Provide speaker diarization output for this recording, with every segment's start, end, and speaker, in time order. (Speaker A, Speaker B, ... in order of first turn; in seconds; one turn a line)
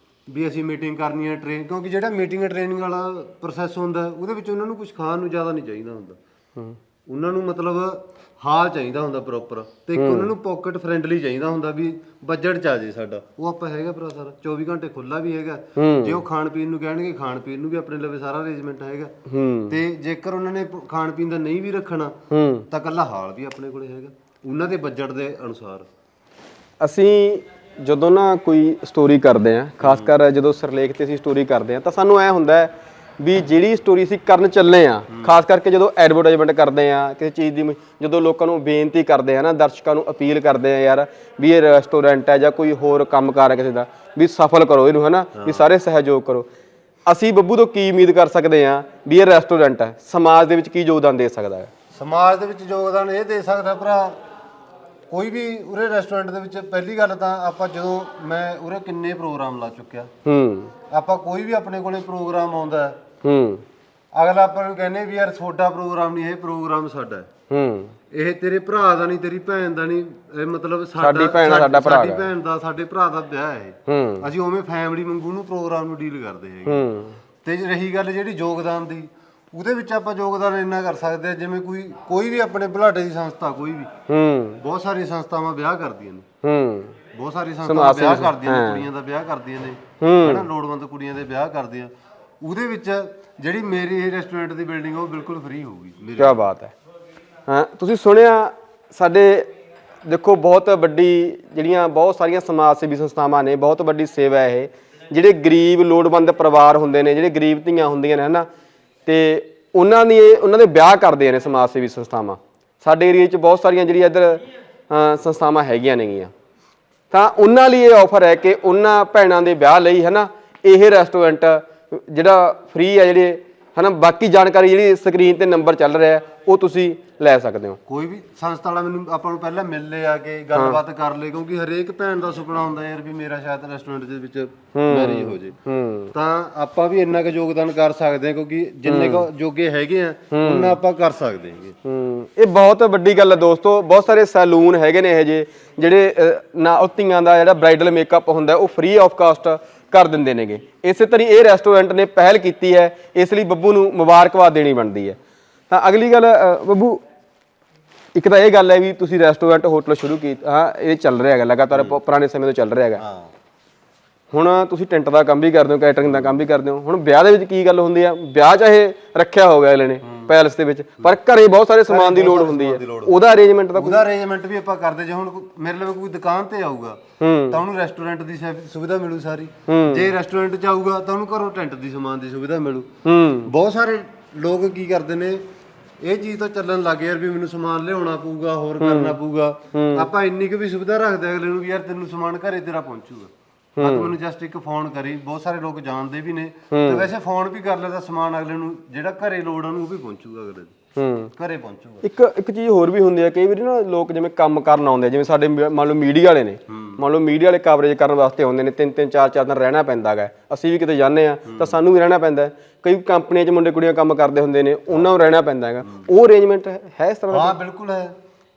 Speaker A: 0.3-6.2
Speaker A: 7.1-19.1
Speaker B: 10.0-10.3
Speaker B: 15.8-16.2
Speaker B: 19.3-19.8
Speaker A: 19.7-22.2
Speaker B: 22.3-22.7
Speaker A: 22.7-25.9
Speaker B: 26.8-46.5
Speaker A: 29.8-30.1
Speaker A: 35.1-35.4
Speaker A: 45.3-45.7
Speaker B: 47.1-51.7
Speaker A: 51.9-54.2
Speaker A: 55.1-60.1
Speaker B: 60.2-60.7
Speaker A: 60.8-63.0
Speaker B: 63.2-63.6
Speaker A: 64.1-67.3
Speaker B: 67.5-68.0
Speaker A: 68.1-76.9
Speaker B: 71.0-72.3
Speaker B: 73.9-74.3
Speaker B: 76.7-77.2
Speaker A: 77.4-83.9
Speaker B: 84.1-84.6
Speaker A: 84.5-86.3
Speaker B: 86.4-87.0
Speaker A: 87.0-96.5
Speaker B: 87.6-88.9
Speaker B: 90.0-90.5
Speaker B: 96.2-96.7
Speaker B: 97.5-99.5
Speaker B: 100.0-108.5
Speaker B: 109.1-116.3
Speaker B: 117.1-127.8
Speaker A: 127.9-135.6
Speaker B: 130.5-130.8
Speaker B: 134.7-136.1
Speaker A: 136.1-141.8
Speaker B: 138.9-139.3
Speaker B: 140.3-140.8
Speaker B: 141.8-155.2
Speaker B: 155.7-157.0
Speaker B: 158.2-163.0
Speaker A: 161.7-162.0
Speaker A: 163.0-163.3
Speaker B: 164.3-174.0
Speaker A: 166.0-166.3
Speaker A: 170.0-170.4
Speaker A: 171.8-182.9
Speaker B: 177.2-177.6
Speaker B: 179.7-180.1
Speaker B: 183.1-183.5
Speaker A: 183.4-185.4
Speaker A: 186.0-200.8
Speaker B: 188.8-189.2
Speaker B: 189.7-190.1
Speaker B: 193.8-194.1
Speaker B: 196.7-197.1
Speaker B: 200.9-201.3
Speaker A: 201.3-202.1
Speaker B: 202.0-217.6
Speaker A: 206.7-207.0
Speaker A: 211.4-211.8
Speaker A: 214.9-215.2
Speaker A: 217.3-218.1